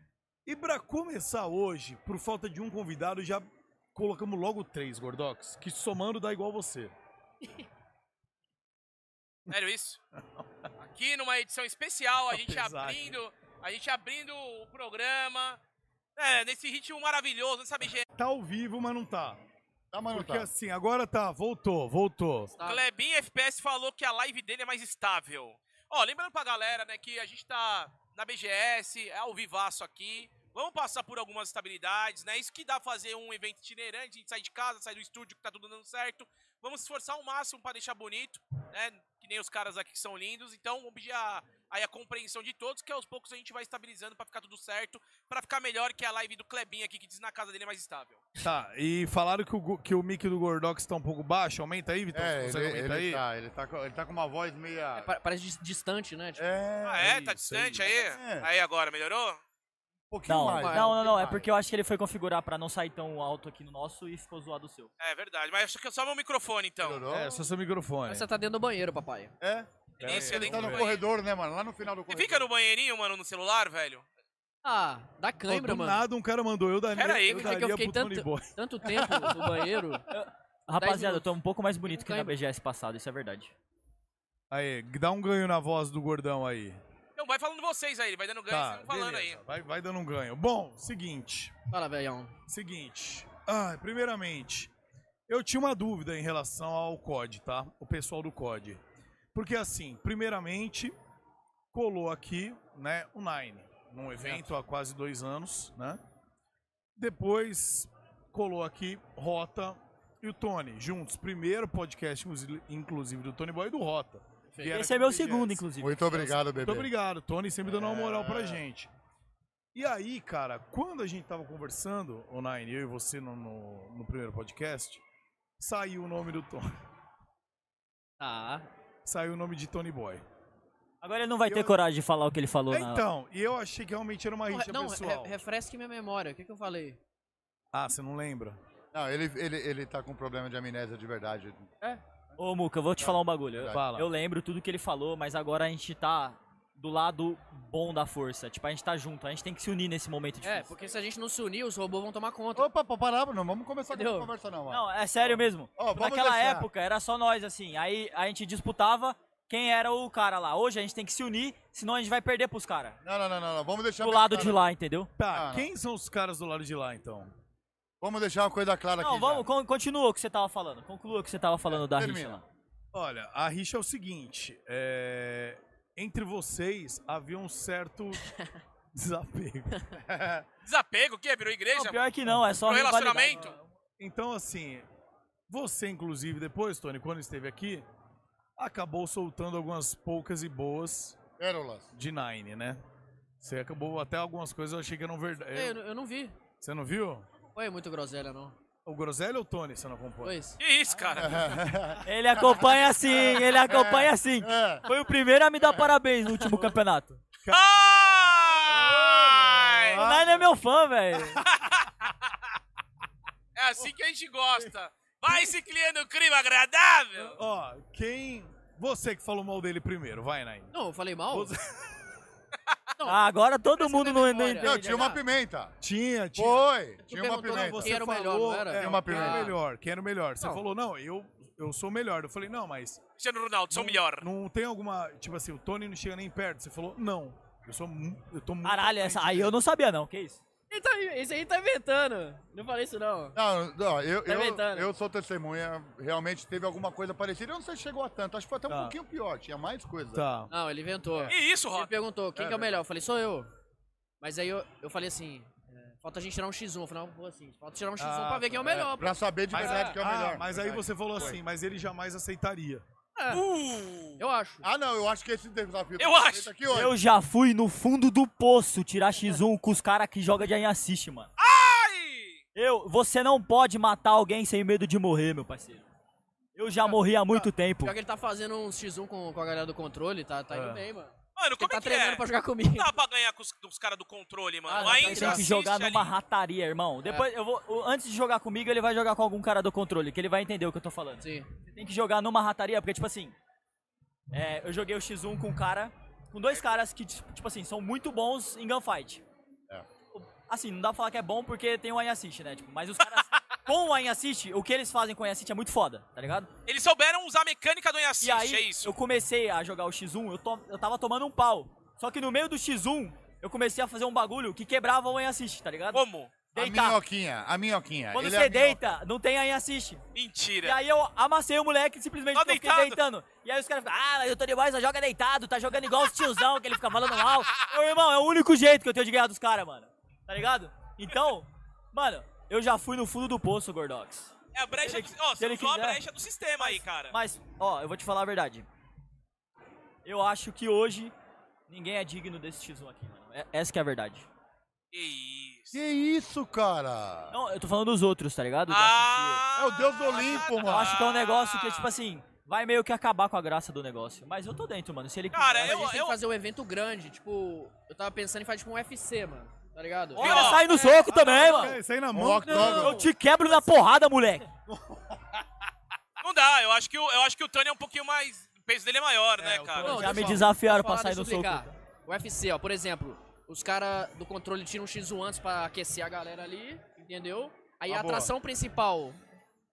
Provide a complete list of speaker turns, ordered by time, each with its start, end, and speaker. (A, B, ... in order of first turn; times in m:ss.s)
0:00.4-0:06.9 A
0:09.5-0:10.0 B
0:10.2-0:10.7 A
0:10.8-0:15.6 B
0:12.3-0:13.2 A
0:16.2-0:18.1 B
0:18.2-0:19.4 A
0:19.9-0:20.5 C
0:20.1-0:22.6 A
0:22.5-0:22.8 D
0:22.6-0:48.3 B
0:48.4-0:53.2 A
0:52.1-0:55.1 C
0:55.0-0:56.5 D
0:56.4-0:57.2 C
0:56.8-0:59.4 B
0:57.0-0:57.9 A
0:57.9-0:58.5 C
1:00.1-1:01.5 C
1:00.3-1:04.9 E
1:00.6-1:01.0 D
1:05.0-1:07.0 B
1:06.8-1:07.4 C
1:07.1-1:08.3 A
1:08.1-1:09.4 D
1:09.4-1:12.5 C
1:10.0-1:10.9 A
1:10.0-1:11.0 B
1:12.1-1:14.1 B
1:14.6-1:16.1 D
1:15.5-1:19.6 A
1:16.9-1:17.5 B
1:17.2-1:20.0 D
1:20.1-1:23.5 E
1:20.8-1:21.3 D
1:21.9-1:22.4 D
1:24.5-1:26.8 A
1:27.2-1:29.4 B
1:28.5-1:31.5 A
1:31.7-1:32.4 D
1:32.5-1:34.7 A
1:35.3-1:38.8 A
1:39.3-1:41.0 A
1:41.7-1:46.0 A
1:44.2-1:44.5 D
1:47.0-1:55.6 A
1:54.7-1:56.2 E
1:55.8-1:56.9 C
1:56.2-1:58.9 A
1:57.8-1:58.3 D
1:58.0-1:58.5 C
1:59.7-2:05.0 A
2:05.6-2:06.7 A
2:08.2-2:08.7 D
2:09.0-2:10.2 A
2:11.0-2:13.1 E
2:11.5-2:11.8 A
2:12.7-2:15.4 A
2:14.5-2:17.0 D
2:17.7-2:18.6 A
2:18.9-2:21.7 C
2:22.4-2:31.0 E
2:23.0-2:23.8 C
2:23.7-2:24.1 A
2:30.4-2:32.7 D
2:32.5-2:36.7 C
2:33.9-2:34.3 D
2:34.7-2:43.0 E
2:43.0-2:44.7 C
2:44.0-2:45.1 E
2:45.2-2:47.3 A
2:45.3-2:45.7 C
2:48.0-2:49.5 C
2:49.0-2:52.4 E
2:51.7-2:52.4 C
2:52.9-2:58.2 A
2:58.9-2:59.8 A
3:00.0-3:00.5 C
3:00.6-3:02.1 B
3:01.7-3:03.5 E
3:02.6-3:03.6 B
3:04.0-3:04.9 A
3:05.5-3:07.8 A
3:08.6-3:11.2 A
3:11.4-3:11.9 C
3:11.9-3:12.8 A
3:13.4-3:15.8 A
3:15.5-3:16.4 D
3:16.6-3:17.3 A
3:17.5-3:18.6 D
3:18.8-3:20.4 A
3:20.2-3:20.6 D
3:20.6-3:21.4 B
3:21.1-3:24.8 C
3:22.0-3:27.2 E
3:27.5-3:27.7 A
3:27.5-3:30.0 B
3:28.7-3:30.5 A
3:28.7-3:29.8 C
3:30.0-3:31.4 E
3:31.5-3:32.1 B
3:33.6-3:37.4 B
3:37.2-3:40.7 A
3:40.7-3:41.6 D
3:41.3-3:42.1 A
3:43.0-3:45.1 E
3:43.8-3:45.2 D
3:44.6-3:45.8 C
3:45.8-3:46.7 A
3:46.4-3:48.0 C
3:47.1-3:49.6 D
3:47.4-3:53.0 A
3:48.7-3:49.6 C
3:53.2-3:54.3 B
3:53.7-3:59.6 A
3:58.6-4:00.4 E
4:00.7-4:03.4 D
4:03.4-4:10.3 C
4:04.3-4:04.9 D
4:08.7-4:09.0 A
4:10.1-4:10.5 A
4:10.5-4:13.5 D
4:11.3-4:11.9 B
4:12.4-4:12.8 C
4:14.2-4:20.0 D
4:18.0-4:18.7 A
4:18.6-4:21.4 C
4:19.5-4:22.8 A
4:23.2-4:23.4 D
4:23.3-4:24.2 B
4:24.2-4:24.7 D
4:24.6-4:27.0 C
4:26.0-4:26.5 B
4:26.7-4:31.3 E
4:31.4-4:32.4 B
4:32.6-4:35.9 E
4:36.6-4:38.0 E
4:36.8-4:42.9 D
4:40.5-4:40.9 A
4:41.4-4:46.1 B
4:44.7-4:45.5 D
4:44.7-4:53.4 E
4:51.2-4:51.5 D
4:54.3-4:59.2 E
5:00.1-5:06.5 E
5:06.7-5:08.9 B
5:08.2-5:17.0 E
5:15.9-5:16.3 B
5:16.6-5:19.0 C
5:18.1-5:20.0 E
5:20.1-5:20.8 B
5:20.6-5:36.0 E
5:22.4-5:23.0 B
5:34.5-5:37.2 B
5:36.6-5:38.7 E
5:40.0-5:41.1 E
5:41.7-5:44.3 E
5:44.9-5:45.8 B
5:45.7-5:47.4 C
5:47.3-5:49.4 E
5:48.7-5:51.9 B
5:49.6-5:51.0 C
5:50.5-5:55.9 E
5:55.3-5:56.2 B
5:55.6-6:01.8 D
6:00.2-6:01.4 B
6:00.2-6:01.8 E
6:01.1-6:02.9 A
6:02.1-6:03.0 C
6:02.4-6:03.8 D
6:02.6-6:04.5 E
6:04.7-6:05.4 A
6:06.2-6:10.1 B
6:09.4-6:10.6 A
6:09.8-6:19.2 D
6:09.8-6:11.7 E
6:17.9-6:18.3 C